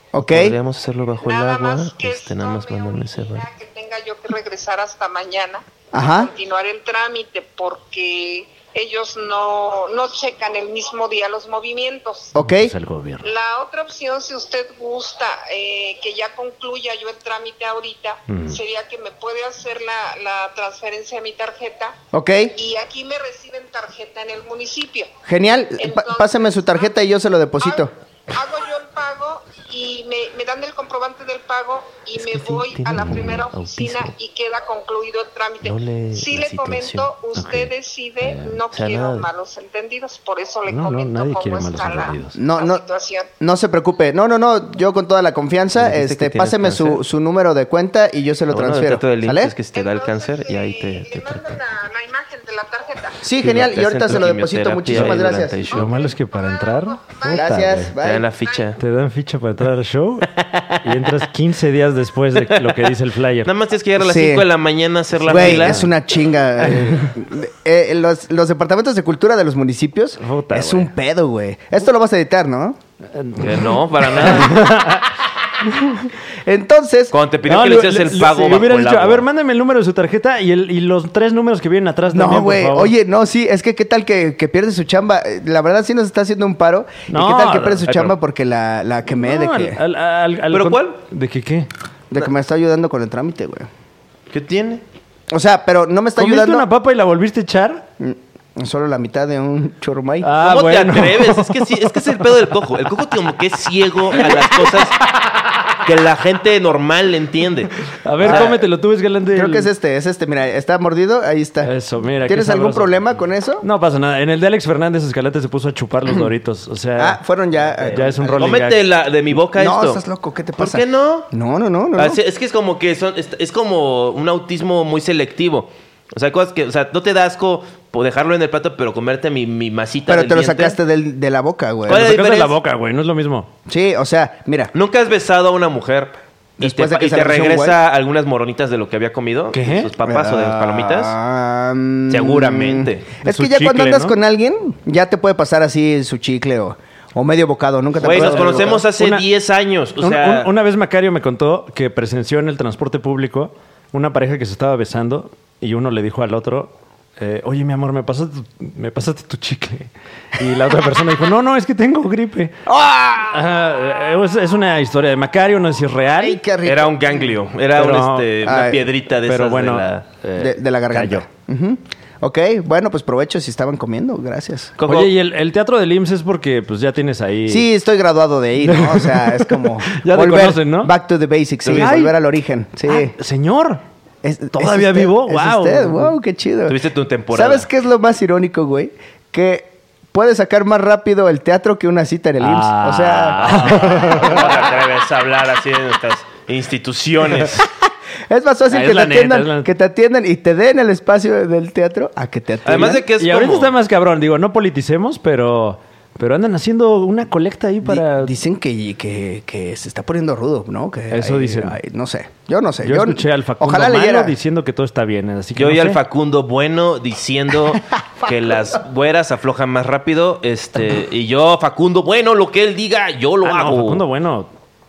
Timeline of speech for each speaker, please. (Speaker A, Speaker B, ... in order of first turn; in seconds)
Speaker A: 0.1-0.6, 5.9-6.3, 12.3-12.7, 22.1-22.5, 25.2-27.9, 42.4-42.8, 43.4-49.5, 53.2-55.6, 57.3-58.3, 64.0-64.5, 65.2-72.8, 76.4-77.2, 82.1-89.8, 92.1-93.7, 95.3-96.7, 98.0-100.4, 108.2-108.6, 109.3-111.7, 112.2-113.7, 117.0-118.6, 119.5-122.2, 130.1-132.1, 133.7-134.7, 136.6-137.8, 140.0-148.8, 162.7-163.5, 166.2-167.2, 168.4-168.8, 170.4-174.8, 177.5-183.2, 184.2-186.8, 187.3-194.3, 198.3-203.1, 207.8-214.3
Speaker B: 0.2-3.5, 32.2-34.1, 35.6-37.7, 38.7-39.3, 45.8-47.0, 48.5-51.6, 53.4-55.9, 58.0-58.8, 60.3-60.8, 62.4-62.9, 63.5-65.9, 73.4-74.6, 77.1-79.2, 90.5-91.0, 94.3-94.8, 100.4-105.0, 105.8-108.5, 117.8-120.0, 120.6-121.3, 122.0-130.8, 131.9-132.5, 134.7-141.2, 142.1-143.1, 148.0-150.5, 166.6-170.1, 174.8-175.1, 186.7-187.7, 193.5-197.7, 202.7-203.7, 215.6-224.0
Speaker C: 1.2-12.3, 13.2-22.0, 22.5-25.1, 25.8-26.9, 27.6-43.3, 49.7-53.2, 55.6-58.8
Speaker D: 12.4-13.3, 18.3-18.6, 37.4-37.7, 38.2-38.6, 40.7-42.4, 54.9-55.2, 55.7-57.9, 58.8-60.3, 60.8-63.5, 65.3-65.9, 70.2-70.9, 73.1-75.1, 75.7-76.0, 77.5-82.9, 87.1-88.1, 89.1-91.7, 96.2-97.8, 100.2-101.7, 108.0-109.7, 111.6-112.9, 113.6-117.2, 117.8-118.8, 131.9-133.5, 139.5-139.9, 143.2-144.2, 148.0-149.2, 150.0-162.6, 163.3-166.4, 167.8-168.3, 169.2-171.2, 174.9-177.7, 178.6-180.9, 181.7-182.2, 182.9-183.8, 184.5-186.1, 192.4-194.5, 198.7-199.7, 202.9-208.3, 211.1-211.8, 212.8-216.0, 223.4-224.5